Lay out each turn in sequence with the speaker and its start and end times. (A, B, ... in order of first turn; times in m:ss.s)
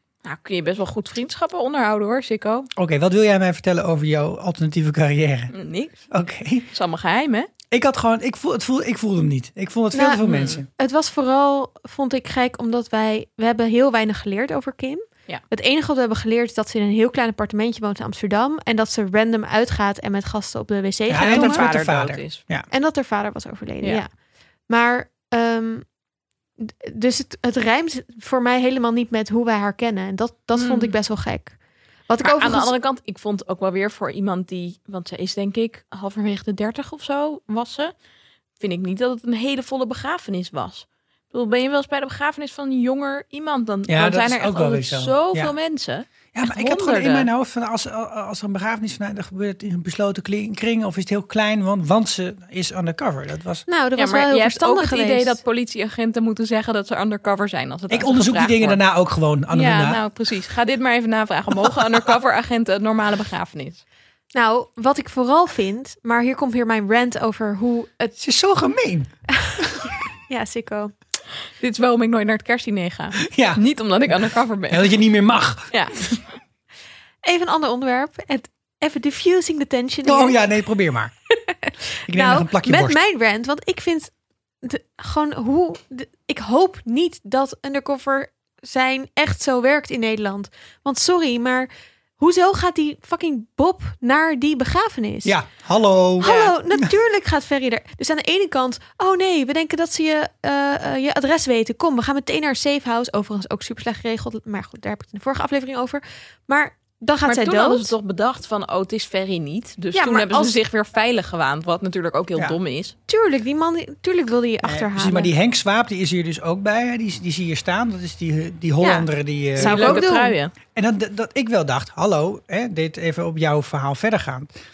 0:00.2-0:02.7 A
0:02.8-0:05.5 B
0:05.5-0:06.0 A
0:06.1-0:06.7 B
0:06.7-0:07.5 A
0:07.7-0:10.7 B
0:09.9-0:21.7 C
0:10.2-0:10.6 A
0:21.1-0:22.7 B
0:21.2-0:22.4 A
0:22.7-0:24.1 C
0:24.7-0:25.8 C
0:26.6-0:31.6 C
0:30.5-0:30.9 A
0:32.1-0:32.7 C
0:32.2-0:37.9 A
0:38.6-0:47.3 A
0:43.9-0:45.5 B
0:46.3-0:53.6 B
0:53.7-0:55.4 C
0:54.0-0:58.8 A
0:57.9-1:00.0 B
0:59.5-1:03.8 A
1:04.3-1:08.1 C
1:08.2-1:09.8 B
1:09.4-1:10.9 C
1:11.6-1:14.9 A
1:13.2-1:13.6 B
1:14.7-1:15.7 B
1:15.7-1:16.0 A
1:17.2-1:20.4 C
1:20.0-1:21.1 B
1:21.3-1:24.1 C
1:22.0-1:23.0 B
1:24.6-1:35.4 C
1:35.2-1:36.9 B
1:36.2-1:47.9 C
1:36.2-1:36.5 A
1:47.2-1:52.9 A
1:49.9-1:50.6 C
1:53.1-1:55.3 C
1:54.6-2:00.0 B
1:58.8-2:00.4 C
1:59.6-2:00.5 A
2:00.7-2:04.5 B